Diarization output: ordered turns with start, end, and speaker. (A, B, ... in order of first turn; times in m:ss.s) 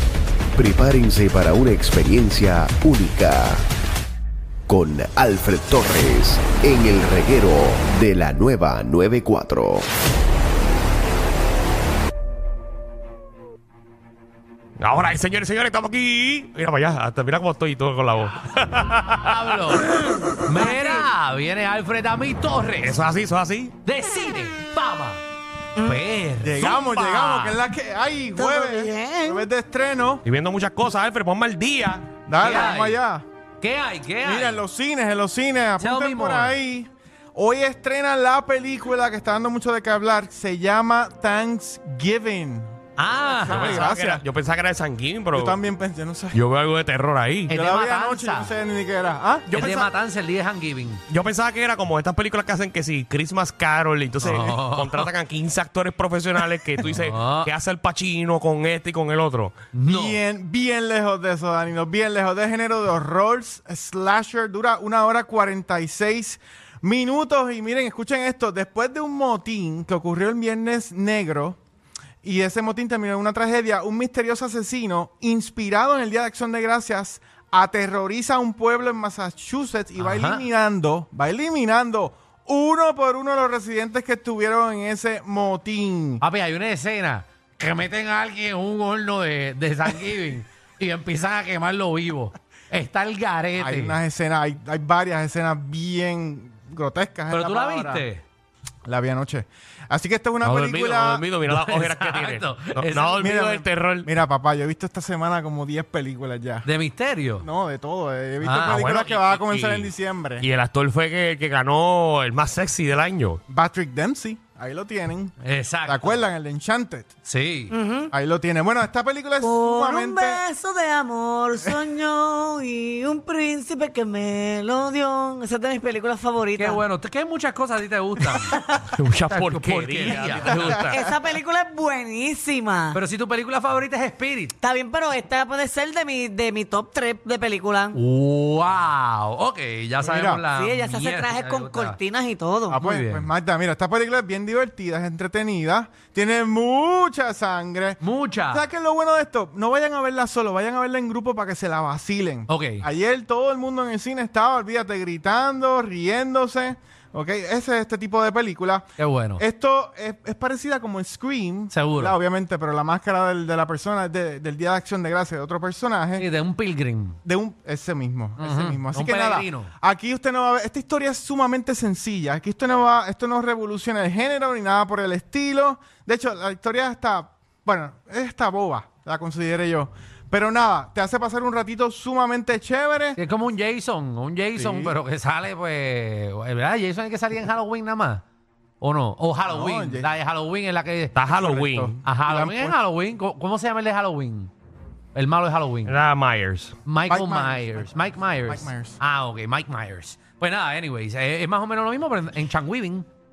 0:00.5-0:03.6 A
0:04.7-0:09.9 A
0:14.8-0:19.8 B
0:19.1-0:23.1 C
0:20.0-0:21.1 D
0:22.8-0:23.7 B
0:23.8-0:25.2 C
0:25.8-0:27.5 C
0:26.4-0:30.2 E
0:26.6-0:27.3 D
0:28.4-0:29.5 D
0:30.2-0:32.2 B
0:32.3-0:33.2 E
0:32.4-0:33.0 C
0:33.6-0:34.6 C
0:34.2-0:44.2 E
0:35.8-0:36.6 C
0:43.0-0:43.9 C
0:43.5-0:45.6 B
0:45.3-0:46.4 E
0:46.3-0:47.5 B
0:47.5-0:48.6 C
0:47.5-0:49.9 E
0:49.5-0:51.0 C
0:51.1-0:59.6 B
0:54.2-0:55.1 C
0:54.2-0:54.5 E
0:56.8-0:57.5 C
0:59.7-1:00.2 C
0:59.8-1:11.6 E
1:12.2-1:26.2 E
1:20.0-1:20.5 C
1:26.2-1:34.0 C
1:33.6-1:38.1 E
1:37.3-1:38.2 C
1:38.9-1:41.3 E
1:40.4-1:44.1 B
1:41.5-1:43.4 C
1:43.2-1:46.7 E
1:46.6-1:47.5 C
1:47.4-1:50.5 E
1:48.4-1:48.8 C
1:48.6-1:53.4 B
1:53.5-1:55.3 E
1:55.4-1:56.2 C
1:55.8-1:57.1 E
1:57.2-1:57.7 C
1:57.7-1:58.1 D
1:58.1-2:00.4 E
1:59.4-2:06.8 D
2:06.6-2:08.6 C
2:08.4-2:08.8 D
2:08.8-2:11.0 B
2:09.3-2:10.8 C
2:10.7-2:13.0 D
2:12.9-2:14.6 C
2:14.6-2:18.0 D
2:17.9-2:22.0 C
2:20.0-2:20.5 E
2:20.5-2:22.8 D
2:22.7-2:46.3 E
2:22.7-2:23.3 C
2:28.0-2:28.7 C
2:32.5-2:32.9 C
2:39.0-2:39.4 C
2:41.7-2:42.2 C
2:46.2-2:47.2 C
2:47.2-3:03.2 E
2:48.4-2:49.7 C
3:03.2-3:08.2 C
3:04.6-3:05.0 E
3:08.8-3:11.2 C
3:09.5-3:10.1 E
3:11.2-3:12.0 B
3:11.2-3:12.8 E
3:12.0-3:14.5 C
3:15.2-3:15.9 C
3:15.9-3:16.8 B
3:16.9-3:23.1 C
3:17.1-3:19.0 E